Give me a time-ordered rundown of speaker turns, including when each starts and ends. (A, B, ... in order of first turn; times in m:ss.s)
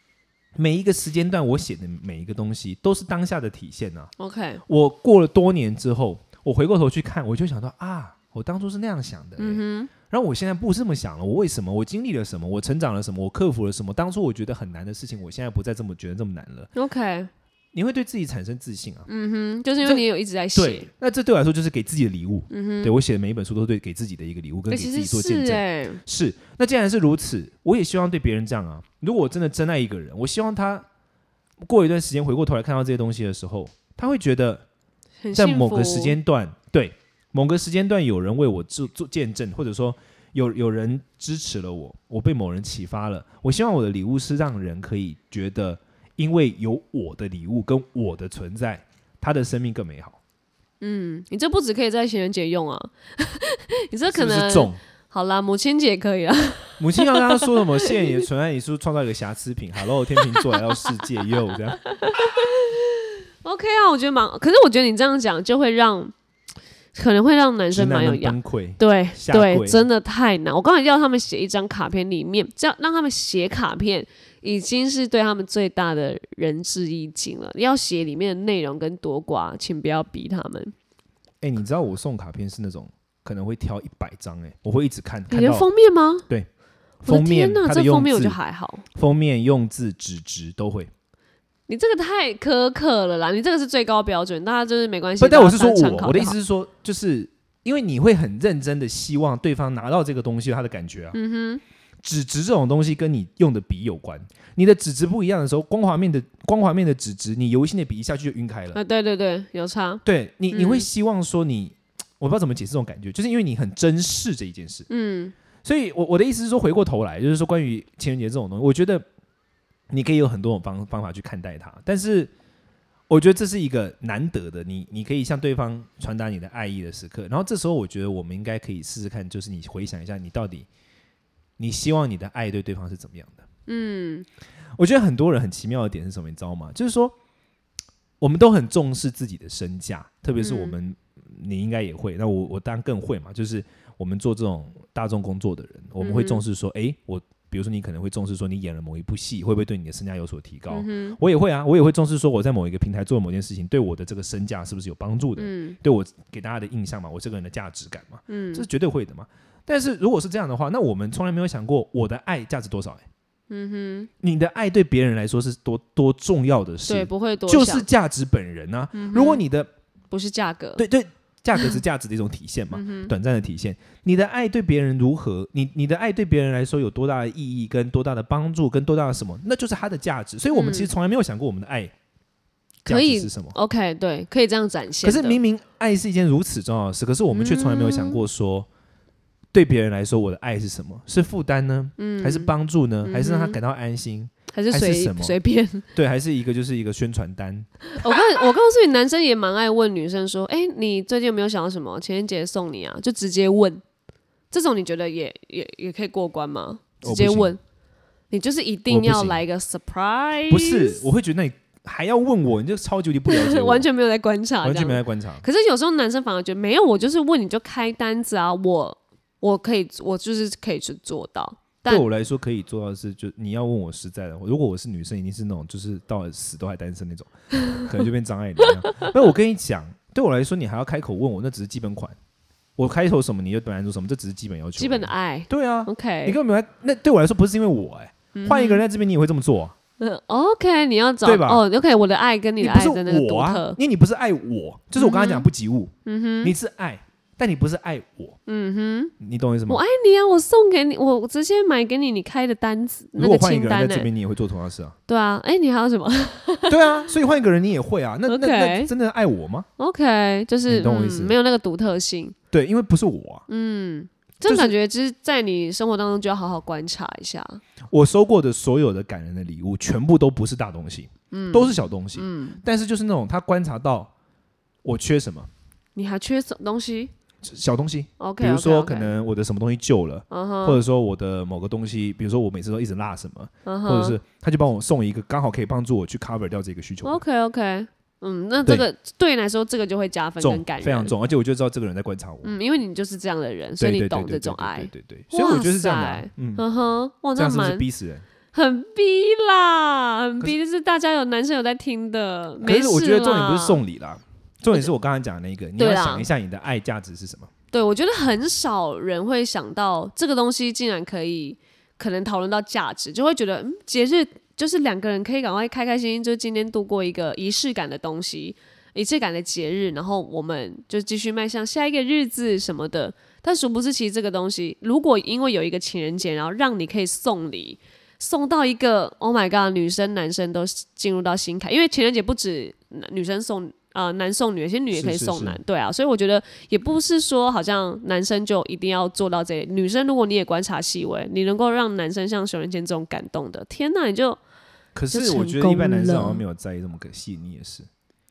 0:00.6-0:04.1 A
0:04.2-0:04.6 B
0:04.7-0:16.7 A
0:09.4-0:09.9 B
0:16.7-0:17.3 B
0:17.7-0:19.1 A
0:19.1-0:20.9 B
0:19.8-0:30.8 A
0:22.5-0:22.9 B
0:24.7-0:26.0 B
0:31.6-0:34.6 A
0:35.2-0:36.2 B
0:35.3-0:50.2 A
0:50.8-0:58.2 B
0:54.1-0:54.8 A
0:56.8-1:01.8 A
1:01.8-1:06.1 B
1:06.9-1:20.7 B
1:07.7-1:09.8 A
1:21.4-1:25.7 A
1:25.3-1:26.2 B
1:27.0-1:28.8 B
1:27.0-1:28.4 A
1:28.9-1:30.9 A
1:31.7-1:36.4 B
1:35.2-1:41.2 A
1:41.1-1:41.6 B
1:42.0-1:48.8 A
1:48.7-1:50.9 B
1:50.0-1:54.9 A
1:54.9-1:55.3 B
1:55.6-1:59.0 A
1:59.9-2:02.3 A
2:03.1-2:10.7 A
2:11.6-2:13.4 A
2:13.7-2:14.3 B
2:14.8-2:17.1 A
2:18.2-2:43.0 A
2:20.4-2:20.8 B
2:26.0-2:26.4 B
2:30.7-2:31.2 B
2:35.4-2:35.8 B
2:38.3-2:38.7 B
2:43.5-2:44.1 B
2:44.2-2:49.7 A
2:46.9-2:47.8 B
2:48.9-2:49.4 B
2:50.1-2:50.8 B
2:50.8-3:01.9 A
2:52.7-2:53.1 B
3:00.5-3:00.9 B
3:02.8-3:05.4 B
3:02.8-3:03.6 A
3:05.0-3:08.7 A
3:07.3-3:08.2 B
3:09.5-3:15.3 A
3:12.0-3:12.5 B
3:13.0-3:13.6 B
3:14.5-3:15.8 B
3:15.9-3:17.8 A
3:17.9-3:23.8 B
3:24.5-3:27.6 B
3:27.0-3:27.5 A
3:28.3-3:31.0 B
3:28.9-3:29.4 A
3:30.5-3:33.9 A
3:33.3-3:42.0 B
3:34.6-3:35.4 A
3:41.9-3:52.1 A
3:52.8-3:59.7 A
3:54.8-3:56.4 B
3:58.3-3:58.8 B
4:00.0-4:03.8 B
4:01.2-4:01.6 A
4:02.6-4:08.4 A
4:05.0-4:05.5 B
4:06.0-4:06.5 B
4:08.4-4:09.1 B
4:09.2-4:09.8 A
4:09.7-4:14.1 B
4:13.2-4:15.0 A
4:15.1-4:17.1 B
4:16.7-4:19.7 A
4:18.3-4:18.9 B
4:19.8-4:22.3 B
4:20.7-4:21.3 A
4:22.5-4:23.4 A
4:23.5-4:27.6 B
4:24.4-4:24.7 A
4:27.9-4:34.1 A
4:31.3-4:32.6 B
4:34.8-4:35.5 A
4:35.9-4:37.1 B
4:37.4-4:47.2 A
4:38.2-4:39.1 B
4:40.3-4:40.8 B
4:43.6-4:44.2 B
4:47.0-4:51.1 B
4:50.4-4:52.5 A
4:52.4-4:57.8 B
4:53.8-4:56.6 A
4:57.3-4:58.2 A
4:58.5-5:03.8 B
5:02.6-5:07.5 A
5:05.8-5:06.3 B
5:07.7-5:44.4 B
5:34.9-5:35.6 A
5:44.9-5:47.9 A
5:45.1-5:46.4 B